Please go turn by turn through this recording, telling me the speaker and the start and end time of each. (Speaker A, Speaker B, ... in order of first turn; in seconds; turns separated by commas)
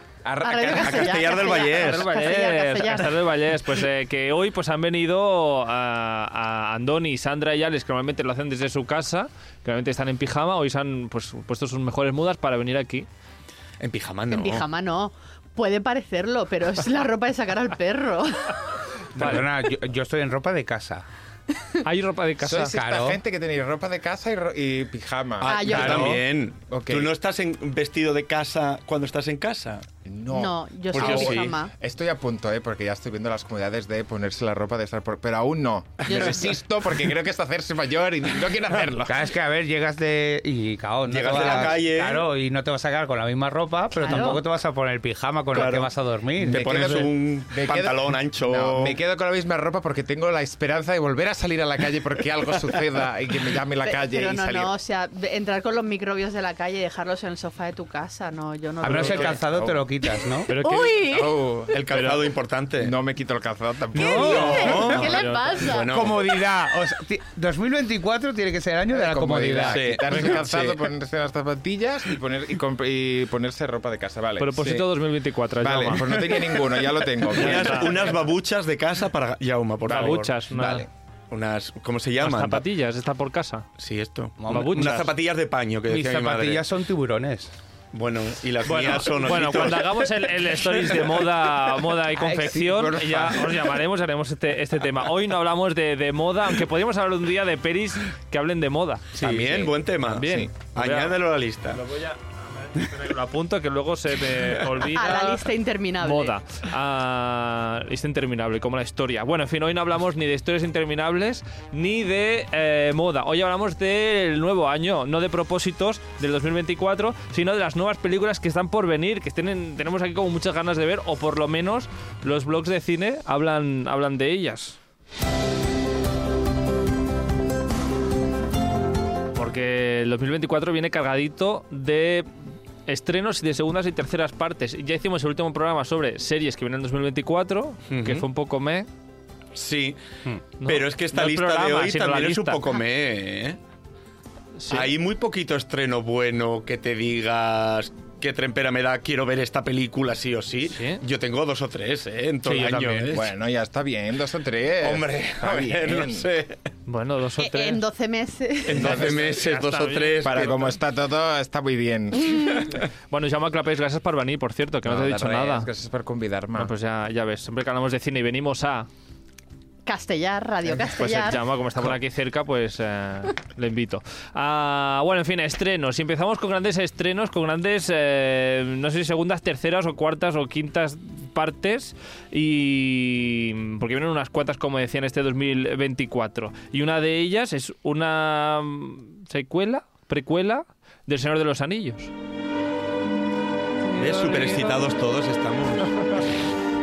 Speaker A: 0.2-1.3, Speaker B: 0.4-3.2, Speaker C: 0.7-2.1, Speaker D: 1.8-13.1, Speaker C: 13.8-14.7, Speaker B: 14.3-18.6, Speaker E: 19.1-21.1, Speaker D: 21.8-22.8, Speaker A: 22.4-27.1, Speaker E: 22.7-23.2, Speaker C: 25.4-29.9, Speaker B: 25.4-26.1, Speaker E: 25.7-26.2, Speaker A: 30.1-39.3, Speaker B: 30.3-31.7, Speaker C: 30.9-31.6, Speaker B: 36.1-36.5, Speaker E: 39.1-47.1, Speaker C: 41.1-42.3, Speaker B: 41.3-41.6, Speaker B: 44.0-44.4, Speaker C: 45.5-49.0, Speaker A: 46.5-54.7, Speaker B: 53.9-59.4, Speaker E: 58.8-60.5, Speaker A: 58.9-59.8, Speaker D: 60.5-61.1, Speaker B: 60.5-61.4, Speaker A: 61.0-62.1, Speaker C: 61.7-63.0, Speaker A: 62.8-65.1, Speaker E: 64.0-64.7, Speaker B: 64.0-66.0, Speaker C: 64.0-66.2, Speaker D: 64.9-65.8, Speaker E: 65.8-69.8, Speaker A: 68.9-74.9, Speaker C: 69.7-70.8, Speaker D: 74.4-76.3, Speaker A: 75.6-78.2, Speaker C: 77.3-80.3, Speaker D: 77.3-77.9, Speaker D: 79.9-80.9, Speaker A: 79.9-80.9, Speaker C: 81.3-82.7, Speaker D: 82.2-83.7, Speaker C: 83.8-86.7, Speaker E: 84.4-85.0, Speaker D: 84.5-85.1, Speaker E: 85.9-87.5, Speaker C: 87.9-91.2, Speaker D: 88.7-101.2, Speaker E: 92.2-93.6, Speaker A: 92.3-93.3, Speaker C: 99.2-101.8, Speaker A: 100.2-100.5, Speaker D: 101.7-124.8, Speaker B: 104.8-106.3, Speaker D: 129.3-132.3, Speaker D: 132.9-138.9, Speaker C: 137.9-138.2, Speaker C: 139.6-140.0, Speaker D: 140.6-142.6, Speaker C: 140.6-143.6, Speaker D: 144.6-144.9, Speaker C: 144.7-153.3, Speaker D: 150.7-151.0, Speaker E: 152.4-153.1, Speaker A: 153.1-156.3, Speaker C: 154.8-156.6, Speaker D: 156.9-157.8, Speaker B: 157.4-159.0, Speaker C: 158.7-160.7, Speaker A: 158.7-159.4, Speaker D: 158.8-160.3, Speaker A: 160.2-162.7, Speaker D: 163.1-165.7, Speaker A: 164.8-166.7, Speaker D: 166.6-168.9, Speaker B: 169.9-171.5, Speaker D: 170.9-192.1, Speaker D: 193.9-194.9, Speaker C: 194.0-196.0